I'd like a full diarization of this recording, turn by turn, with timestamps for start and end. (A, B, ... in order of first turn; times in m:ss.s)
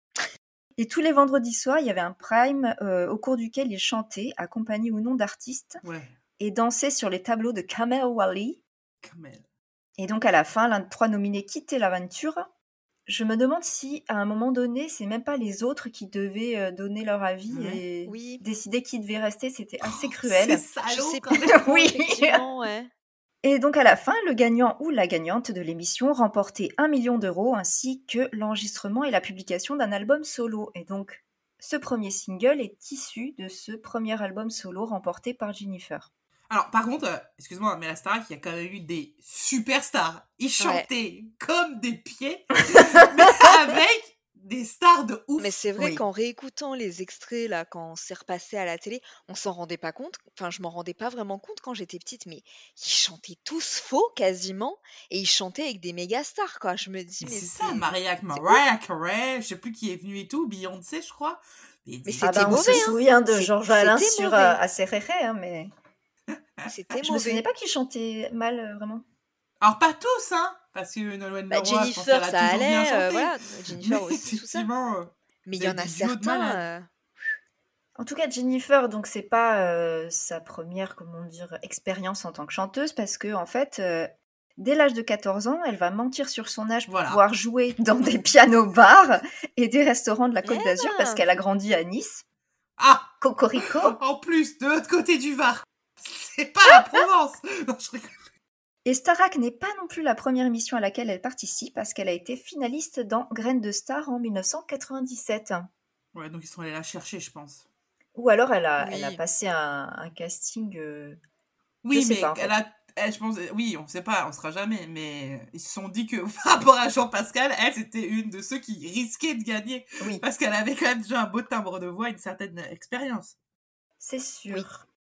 0:00.8-0:05.8 A
0:05.8-0:06.1 B
0:06.4-0:08.6 A
0:09.0-0:09.4 B
0:10.0-0:12.5 A
0:13.1-0:20.7 A
0:17.5-0:17.8 B
0:18.0-0:18.4 C
0:19.8-0:21.7 B
0:20.9-0:22.9 C
0:21.5-0:22.4 A
0:23.4-0:36.1 A
0:36.5-0:45.5 B
0:40.6-0:40.9 C
0:45.4-0:58.6 C
0:57.2-1:02.9 B
1:02.0-1:04.6 C
1:02.2-1:05.7 A
1:06.6-1:07.4 C
1:07.0-1:09.0 A
1:09.6-1:16.6 B
1:11.5-1:14.7 C
1:15.4-1:16.9 C
1:18.0-1:32.2 A
1:26.9-1:27.2 B
1:30.4-1:31.2 C
1:32.8-1:38.2 B
1:33.2-1:34.0 A
1:38.8-1:45.7 A
1:46.1-1:47.6 B
1:48.1-1:51.2 A
1:48.8-1:49.2 C
1:51.8-2:03.3 B
1:51.9-1:52.5 A
2:04.0-2:04.8 A